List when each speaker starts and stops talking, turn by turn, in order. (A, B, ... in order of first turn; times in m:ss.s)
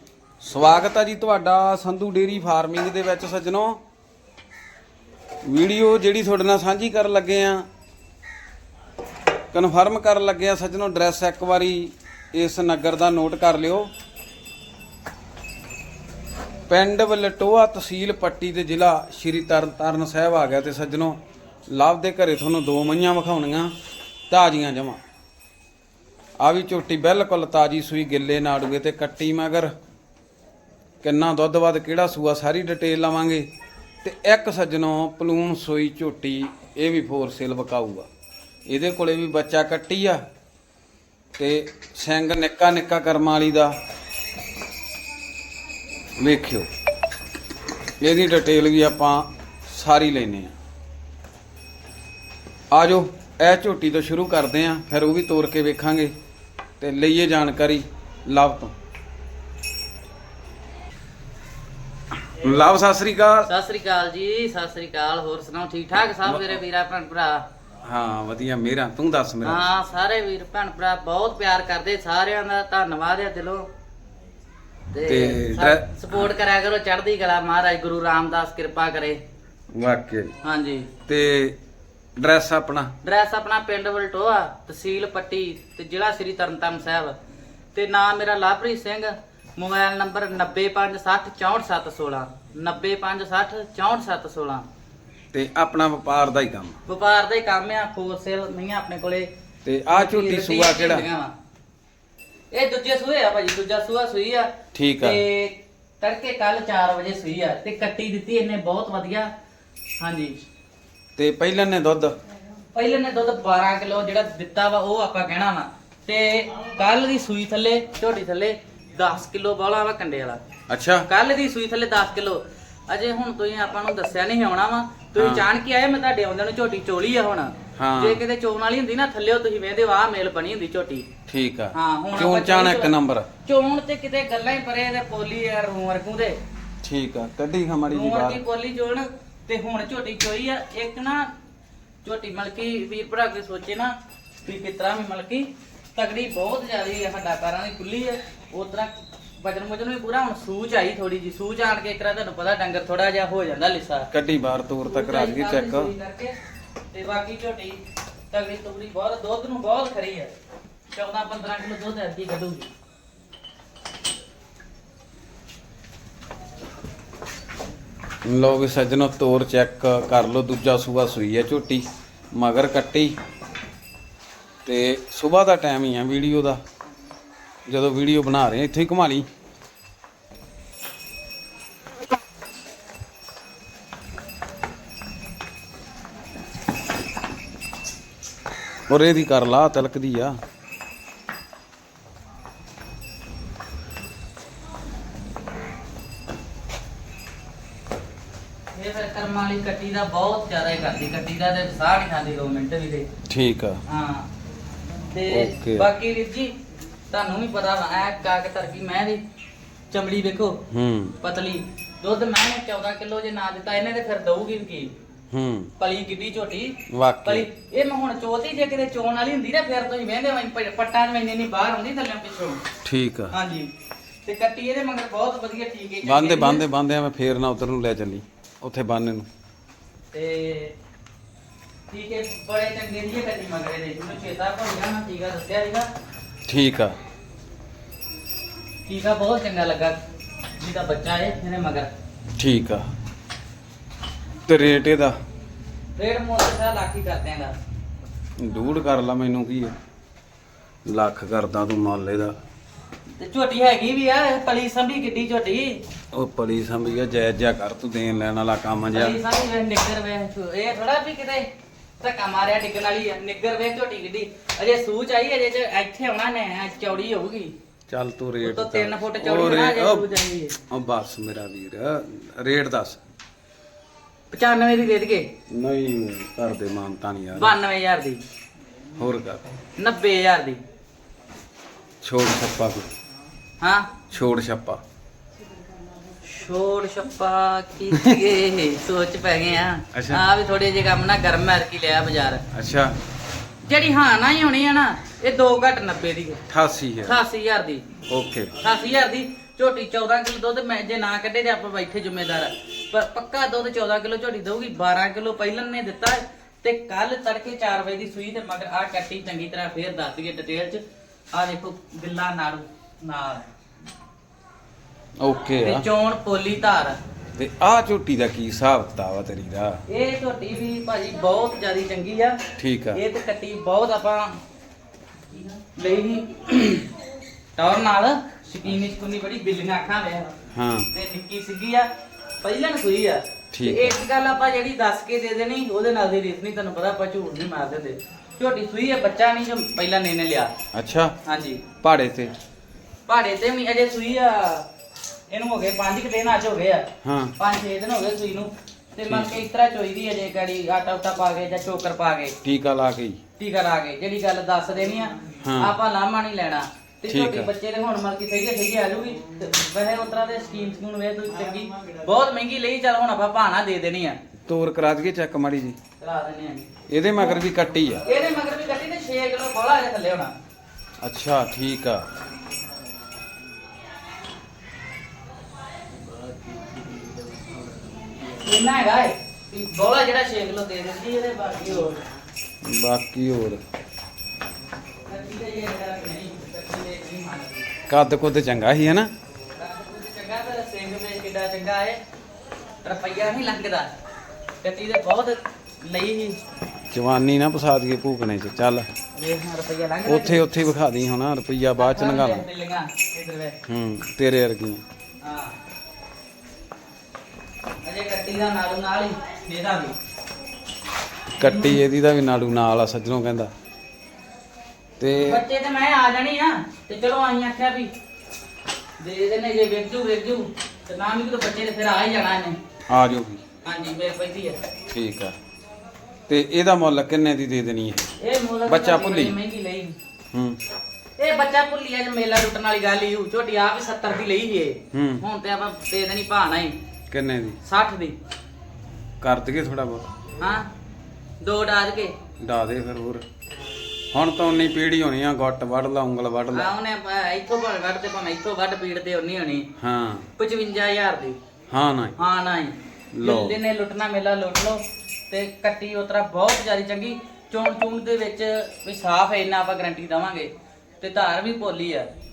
0:00.4-0:03.8 A
0:05.4-0:07.7 A
0:09.5-0:13.9 A
0:16.7-0:23.8 A
0:24.3-0:25.0 A
0:26.4-0:29.7 A
0:31.0-0:33.5 A
0:34.0-0:38.1 A
0:38.7-0:40.2 A
0:41.4-0:43.8 A
0:46.2-0:46.7 A
0:48.0-0:50.5 A
0:52.7-0:56.2 A
0:56.8-0:58.7 A
1:02.2-1:03.5 A
1:03.5-1:07.4 B
1:06.2-1:06.6 A
1:07.8-1:09.6 A
1:09.4-1:13.7 B
1:14.9-1:19.2 B
1:15.1-1:16.3 A
1:19.7-1:20.3 A
1:20.4-1:20.9 B
1:21.1-1:21.6 A
1:22.2-1:22.9 A
1:23.0-1:27.2 B
1:27.8-1:34.7 B
1:35.3-1:36.8 A
1:36.9-1:39.3 B
1:39.7-1:41.1 A
1:39.9-1:41.3 B
1:42.5-1:49.3 B
1:44.7-1:45.2 A
1:50.0-1:50.4 B
1:51.2-1:52.2 A
1:52.7-2:00.4 B
2:00.7-2:01.1 A
2:01.1-2:11.1 B
2:05.2-2:05.5 A
2:07.8-2:08.2 A
2:11.3-2:13.3 A
2:11.7-2:12.9 B
2:13.4-2:16.4 B
2:16.8-2:18.4 A
2:17.9-2:21.3 B
2:22.0-2:23.9 B
2:24.4-2:34.1 B
2:34.1-2:35.9 A
2:34.8-2:36.4 B
2:36.9-2:40.3 B
2:40.9-2:42.7 B
2:48.2-2:53.1 A
2:54.6-2:56.6 A
2:57.7-2:59.3 A
3:08.9-3:10.4 A
3:18.7-3:23.1 B
3:23.3-3:23.8 A
3:23.9-3:24.3 B
3:25.1-3:26.5 B
3:25.3-3:25.9 A
3:27.1-3:29.2 B
3:29.9-3:30.6 B
3:30.7-3:31.2 A
3:31.2-3:35.0 B
3:35.3-3:35.7 A
3:35.8-3:42.6 B
3:36.9-3:37.5 A
3:42.8-3:43.4 A
3:43.3-3:43.7 B
3:44.2-3:46.6 B
3:46.0-3:49.3 A
3:50.1-3:50.7 B
3:51.9-3:55.9 B
3:56.5-3:57.0 A
3:58.9-4:00.0 B
4:00.6-4:01.9 B
4:02.4-4:02.9 A
4:04.5-4:05.2 A
4:06.0-4:07.6 B
4:08.4-4:09.8 A
4:10.9-4:12.4 A
4:13.2-4:15.8 B
4:16.1-4:19.2 A
4:18.9-4:21.5 B
4:22.0-4:27.5 B
4:27.9-4:30.1 A
4:28.4-4:30.6 B
4:30.7-4:33.0 A
4:34.3-4:35.3 B
4:35.5-4:37.6 A
4:37.4-4:38.2 B
4:39.0-4:39.4 A
4:39.8-4:40.6 B
4:42.0-4:42.9 A
4:43.6-4:43.9 B
4:44.1-4:44.8 A
4:46.2-4:52.4 B
4:49.9-4:50.2 A
4:52.5-4:53.0 A
4:53.6-4:56.4 B
4:56.5-4:57.2 A
4:57.0-4:57.9 B
4:58.1-4:58.6 A
4:58.6-5:10.8 B
5:11.3-5:13.5 B
5:15.2-5:15.9 A
5:15.6-5:17.0 B
5:17.4-5:19.8 A
5:19.9-5:22.4 B
5:22.6-5:23.0 A
5:22.9-5:24.4 B
5:25.3-5:26.9 B
5:27.6-5:30.3 B
5:30.5-5:30.9 A
5:30.9-5:31.9 B
5:32.4-5:40.5 B
5:33.5-5:34.0 A
5:40.7-5:41.2 A
5:41.2-5:41.6 B
5:41.8-5:42.4 A
5:43.1-5:44.7 B
5:45.3-5:52.4 B
5:47.0-5:47.3 A
5:49.1-5:49.4 A
5:52.4-5:53.2 A
5:53.4-6:04.2 B
5:55.4-5:55.8 A
5:57.1-5:57.5 A
6:04.5-6:05.8 A
6:06.0-6:06.7 B
6:06.9-6:08.0 A
6:08.0-6:10.3 B
6:11.0-6:12.1 A
6:18.3-6:22.0 B
6:22.6-6:23.6 A
6:25.1-6:27.7 B
6:27.9-6:29.1 A
6:29.6-6:32.0 B
6:32.8-6:34.0 B
6:34.6-6:36.4 B
6:36.9-6:38.9 A
6:39.2-6:40.5 B
6:40.1-6:42.4 A
6:41.8-6:43.6 B
6:43.7-6:44.8 A
6:45.2-6:45.6 B
6:47.8-6:50.0 B
6:51.3-6:53.5 A
6:51.4-6:51.8 B
6:55.0-6:55.4 A
6:55.2-6:57.9 B
6:59.0-7:02.6 B
7:02.9-7:03.4 A
7:03.6-7:04.6 B
7:04.9-7:05.4 A
7:06.3-7:08.1 A
7:08.2-7:10.0 B
7:08.7-7:09.4 A
7:10.3-7:10.6 A
7:11.2-7:16.8 B
7:14.9-7:15.2 A
7:17.1-7:17.6 A
7:17.6-7:18.2 B
7:19.2-7:20.1 A
7:20.4-7:20.7 B
7:21.4-7:22.2 B
7:22.4-7:23.2 A
7:24.1-7:26.7 A
7:26.5-7:29.7 B
7:29.8-7:30.3 A
7:30.4-7:31.4 B
7:31.7-7:32.2 A
7:32.2-7:42.1 B
7:33.1-7:33.6 A